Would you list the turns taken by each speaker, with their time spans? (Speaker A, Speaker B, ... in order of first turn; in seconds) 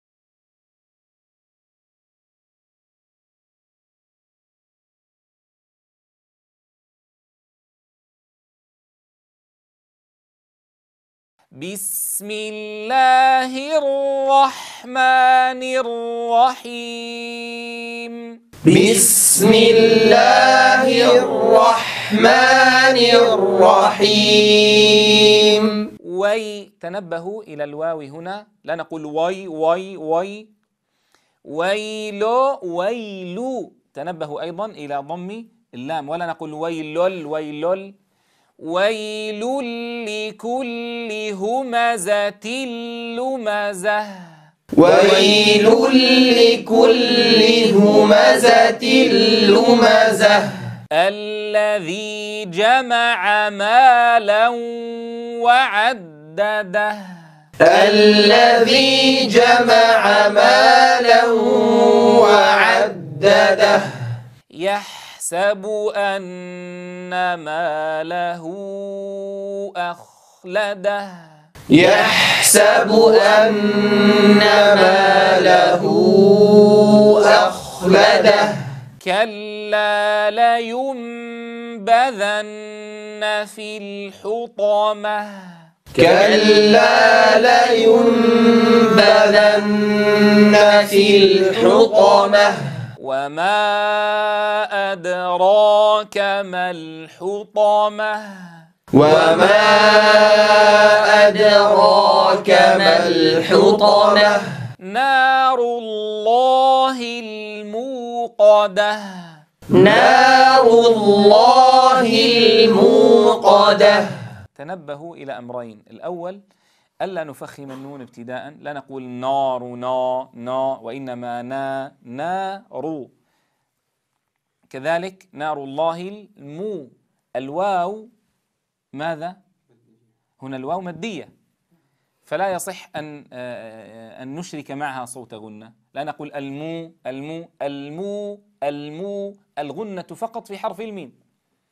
Speaker A: 11.6-18.4, 26.0-30.5, 31.4-38.0, 38.6-44.4, 50.9-57.2, 64.5-71.3, 79.0-85.6, 93.0-98.6, 104.8-109.4, 114.5-116.4, 117.0-123.1, 124.7-128.1, 128.9-129.4, 130.4-131.3, 132.3-141.2
Speaker B: 18.6-25.8, 44.8-50.5, 57.6-63.9, 71.7-78.6, 85.9-92.6, 98.9-104.4, 109.7-114.1